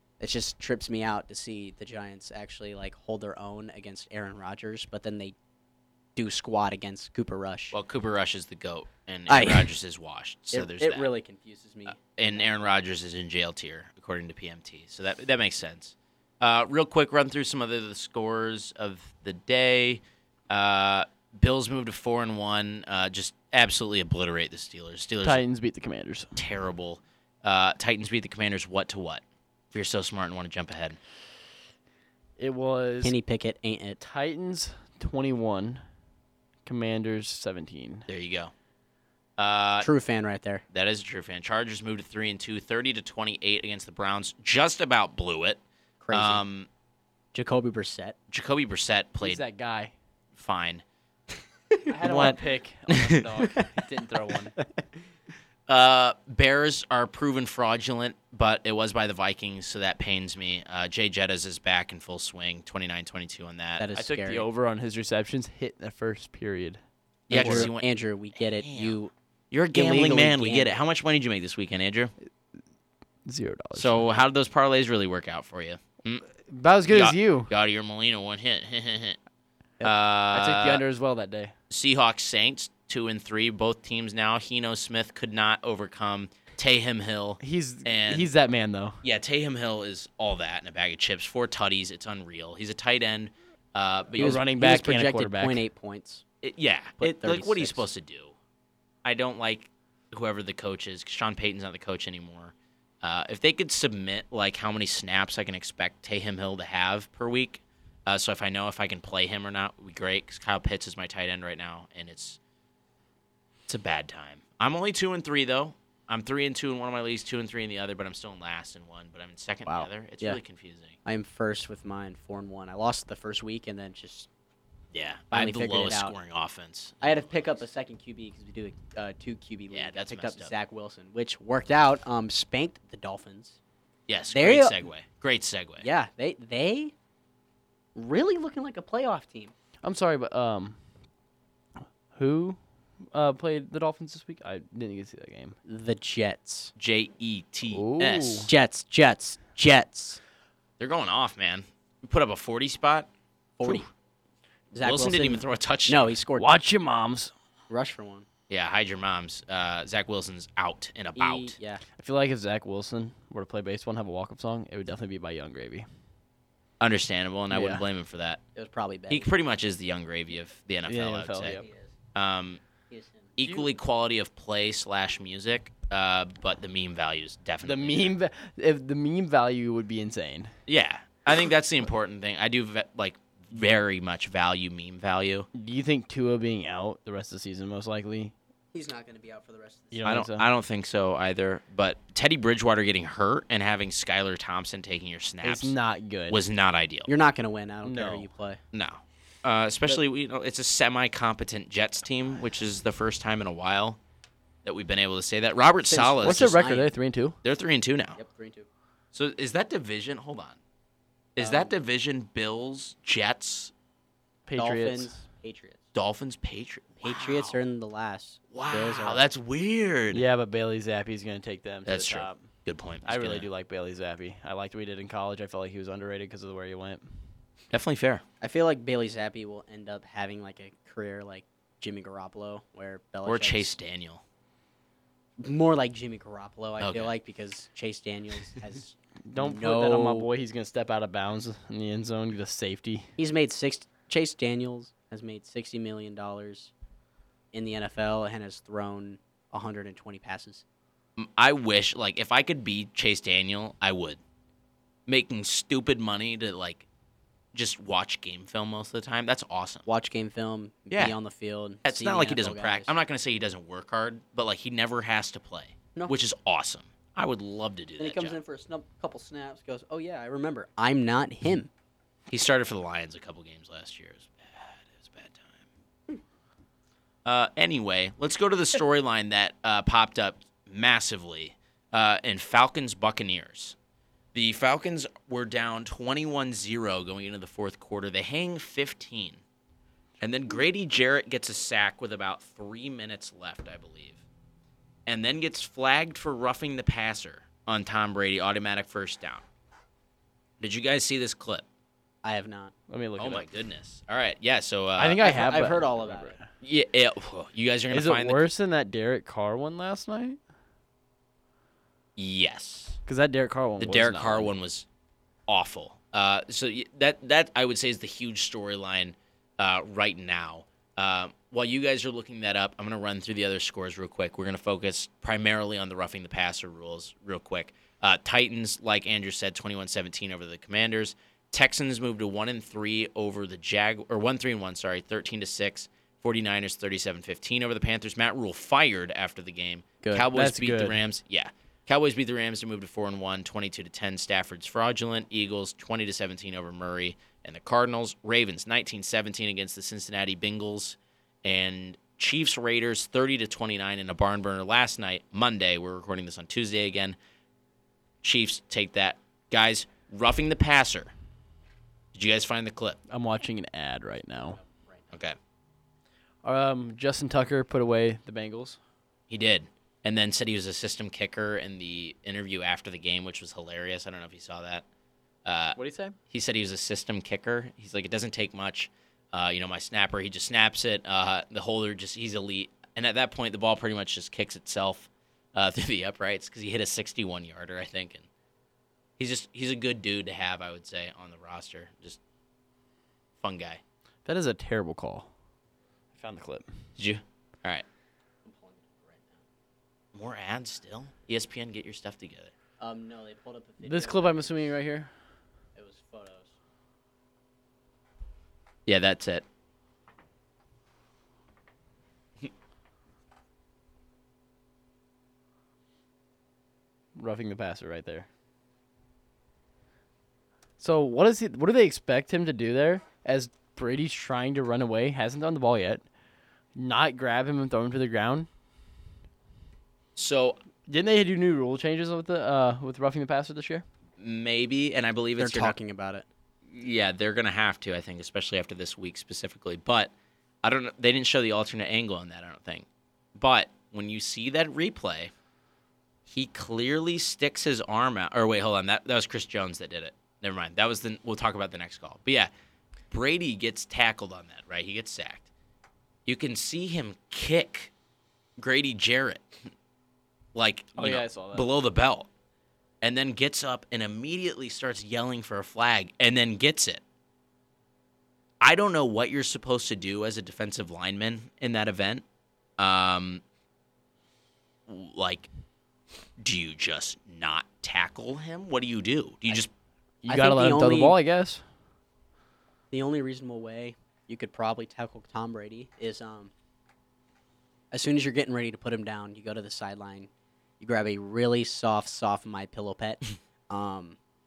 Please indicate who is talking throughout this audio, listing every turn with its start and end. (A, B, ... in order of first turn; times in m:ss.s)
0:00.2-0:05.3 A
0:06.2-0:07.8 A
0:07.7-0:11.1 B
0:09.3-0:09.7 A
0:10.5-0:12.6 A
0:12.0-0:25.4 B
0:25.2-0:26.4 C
0:26.4-0:31.0 B
0:32.4-0:33.2 C
0:33.0-0:34.0 A
0:34.0-0:35.8 C
0:36.6-0:38.1 C
0:38.1-0:38.5 B
0:39.4-0:39.9 B
0:39.8-0:40.6 A
0:40.7-0:45.6 B
0:46.0-0:46.4 A
0:46.1-0:46.7 B
0:47.3-0:48.1 A
0:48.3-0:49.4 B
0:49.2-0:49.9 C
0:50.3-0:50.8 B
0:51.9-0:54.6 C
0:52.0-0:53.5 B
0:55.7-1:03.8 B
1:03.8-1:04.4 A
1:03.9-1:06.8 C
1:07.3-1:09.0 B
1:07.3-1:07.7 C
1:07.3-1:09.1 A
1:09.5-1:12.1 B
1:09.7-1:10.7 A
1:13.2-1:14.1 C
1:13.7-1:16.2 B
1:16.4-1:17.5 C
1:16.9-1:19.2 B
1:19.8-1:20.8 B
1:19.8-1:21.5 C
1:21.7-1:28.3 B
1:27.4-1:29.0 C
1:29.0-1:34.4 B
1:34.2-1:35.6 C
1:34.2-1:36.2 A
1:36.4-1:38.3 B
1:37.0-1:37.9 A
1:39.0-1:52.4 B
1:53.7-2:01.0 B
1:59.6-2:00.4 A
2:01.0-2:04.3 A
2:04.9-2:07.6 B
2:05.3-2:06.1 A
2:07.0-2:13.6 A
2:09.7-2:10.5 B
2:14.1-2:15.8 B
2:14.3-2:14.8 A
2:15.8-2:16.9 A
2:17.9-2:19.5 A
2:19.8-2:20.8 C
2:22.1-2:22.6 C
2:23.1-2:25.6 C
2:25.6-2:26.7 A
2:26.8-2:28.5 B
2:27.7-2:28.5 C
2:28.5-2:30.2 A
2:30.8-2:33.1 B
2:33.6-2:33.9 A
2:34.7-2:36.5 A
2:34.8-2:36.2 B
2:36.4-2:37.3 C
2:37.7-2:38.2 A
2:38.5-2:41.6 B
2:41.2-2:41.8 A
2:42.0-2:45.8 C
2:46.8-2:48.4 B
2:47.5-2:47.8 C
2:48.6-2:49.3 A
2:49.1-2:51.6 B
2:50.9-2:51.6 C
2:51.5-2:51.9 A
2:52.1-2:52.6 B
2:52.9-2:53.3 A
2:53.4-2:58.1 B
2:57.6-3:00.5 C
3:00.7-3:05.5 B
3:05.5-3:08.3 C
3:08.7-3:10.0 A
3:09.9-3:10.5 C
3:10.0-3:15.7 B
3:15.4-3:16.4 C
3:16.3-3:17.1 B
3:17.1-3:18.6 A
3:17.8-3:18.3 C
3:18.7-3:24.0 B
3:24.6-3:26.6 B
3:25.9-3:26.9 A
3:26.2-3:27.4 C
3:27.4-3:28.2 B
3:28.2-3:28.7 A
3:29.1-3:30.6 B
3:31.4-3:33.7 B
3:31.4-3:31.7 A
3:34.4-3:35.1 C
3:34.6-3:35.8 A
3:35.9-3:37.6 B
3:37.0-3:39.2 A
3:38.5-3:40.2 B
3:40.1-3:42.4 C
3:41.8-3:43.5 B
3:43.0-3:47.0 C
3:47.7-3:48.2 B
3:48.4-3:53.8 A
3:53.2-3:54.2 B
3:55.4-4:00.3 A
3:56.8-3:57.1 B
3:59.3-4:03.1 C
4:03.2-4:06.7 A
4:07.5-4:10.6 A
4:11.2-4:14.2 B
4:15.1-4:16.8 B
4:17.5-4:19.8 B
4:19.8-4:22.9 A
4:20.9-4:21.2 B
4:21.8-4:28.4 B
4:28.0-4:31.7 A
4:32.3-4:35.7 B
4:37.2-4:43.8 B
4:44.3-4:49.4 B
4:50.2-4:54.2 B
4:55.0-4:59.4 B
5:00.6-5:01.6 B
5:02.2-5:02.7 A
5:02.9-5:03.4 C
5:03.2-5:05.2 B
5:05.0-5:06.5 C
5:05.2-5:06.3 A
5:06.6-5:08.4 B
5:07.9-5:10.4 C
5:12.2-5:13.0 B
5:13.1-5:14.5 C
5:13.8-5:14.8 B
5:15.5-5:57.2 B
5:40.2-5:41.0 C
5:58.2-6:01.1 B
6:02.1-6:03.0 B
6:03.1-6:04.6 C
6:04.5-6:05.0 A
6:06.4-6:08.8 C
6:09.3-6:14.8 B
6:15.4-6:15.8 B
6:15.8-6:16.2 C
6:16.3-6:28.2 B
6:29.2-6:32.2 B
6:33.4-6:33.8 B
6:34.2-6:35.3 C
6:36.1-6:36.7 C
6:37.0-6:37.8 B
6:38.4-6:39.4 A
6:40.1-6:42.5 B
6:42.8-6:44.5 A
6:43.8-6:45.1 C
6:45.7-6:46.5 A
6:48.8-6:49.4 B
6:57.2-6:58.3 C
7:00.8-7:06.0 C
7:06.8-7:08.5 C
7:10.2-7:10.6 B
7:10.9-7:13.8 C
7:14.2-7:15.7 B
7:15.4-7:16.2 A
7:16.7-7:20.1 B
7:20.6-7:25.3 B
7:26.3-7:32.5 B
7:33.1-7:35.5 B
7:36.2-7:37.9 B
7:38.6-7:39.5 B
7:40.5-7:42.3 B
7:41.0-7:41.7 C
7:43.0-7:47.0 B
7:48.6-7:52.2 B
7:52.8-7:53.4 B
7:54.9-7:55.5 B
7:56.4-7:59.7 B
8:00.2-8:01.6 C
8:00.3-8:01.2 A
8:02.9-8:06.5 A
8:07.9-8:10.3 A
8:10.8-8:14.2 A